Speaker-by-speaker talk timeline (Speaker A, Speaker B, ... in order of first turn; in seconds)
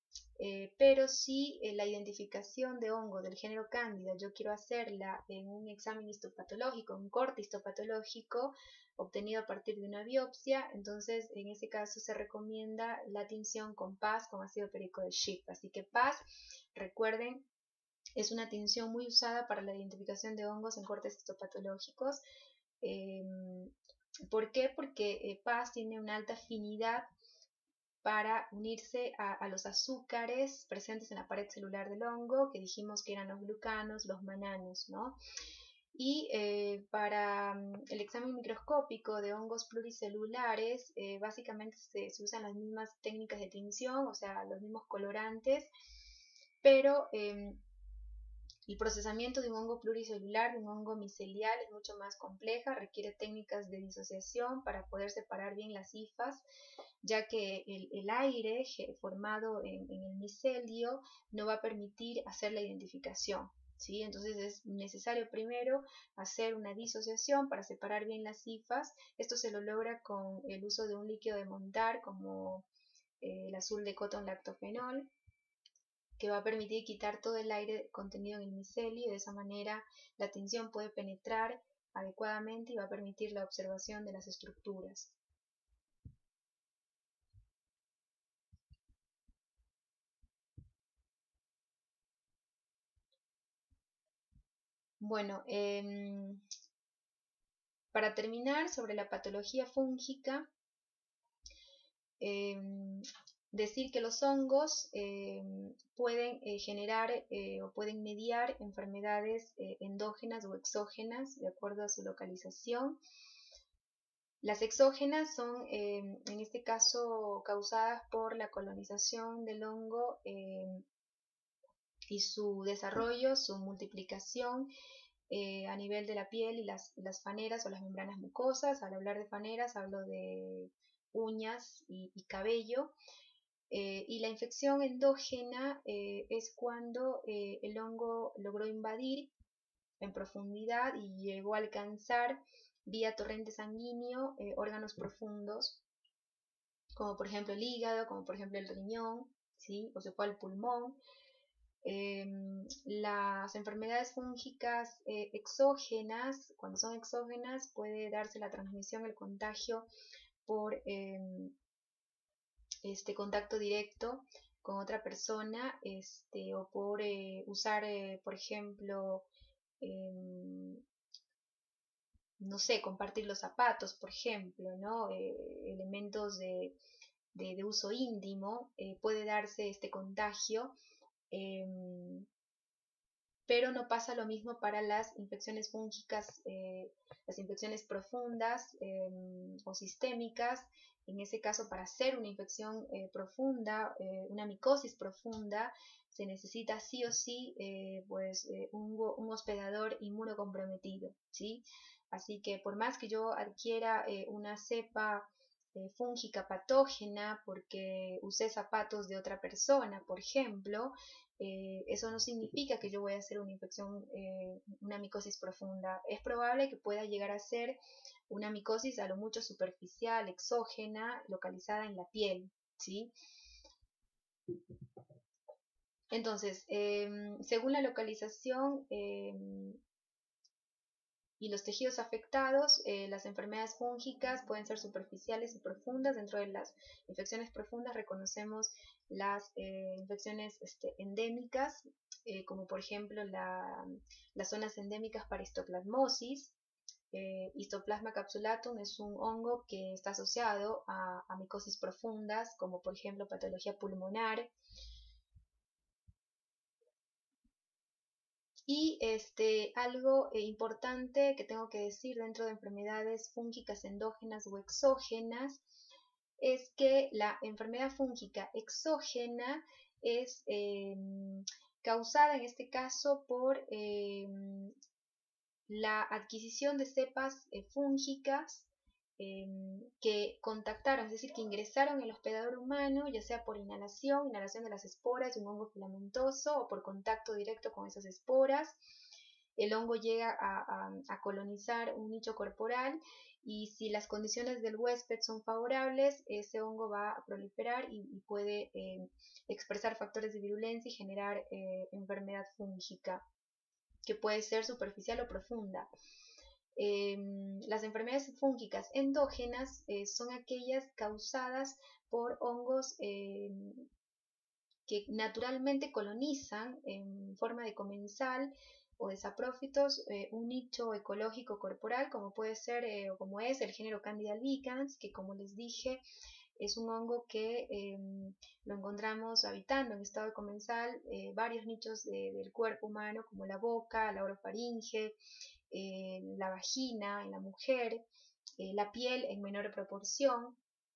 Speaker A: 0.4-16.2, 16.8-17.5, 18.2-22.2, 22.8-23.7, 24.3-27.1, 28.0-35.2, 35.9-45.7, 46.6-47.6, 48.7-56.4, 57.0-72.7, 73.2-75.1, 76.2-85.2, 95.0-96.4, 97.9-100.5, 102.2-113.0, 114.4-120.8, 122.1-124.7, 125.3-132.9, 133.7-139.3, 140.0-145.8, 147.0-151.0, 151.8-159.9, 160.5-161.6, 162.8-169.3, 169.8-170.8, 172.4-176.8, 177.3-180.7, 181.3-182.3, 183.5-217.8, 218.3-223.1, 226.1-229.8, 231.4-246.6, 247.1-254.5, 258.7-265.6, 266.4-274.8, 275.7-288.8, 289.6-303.2, 304.1-305.9, 306.8-313.9, 314.9-326.0, 326.6-335.2, 335.7-338.1, 338.6-340.6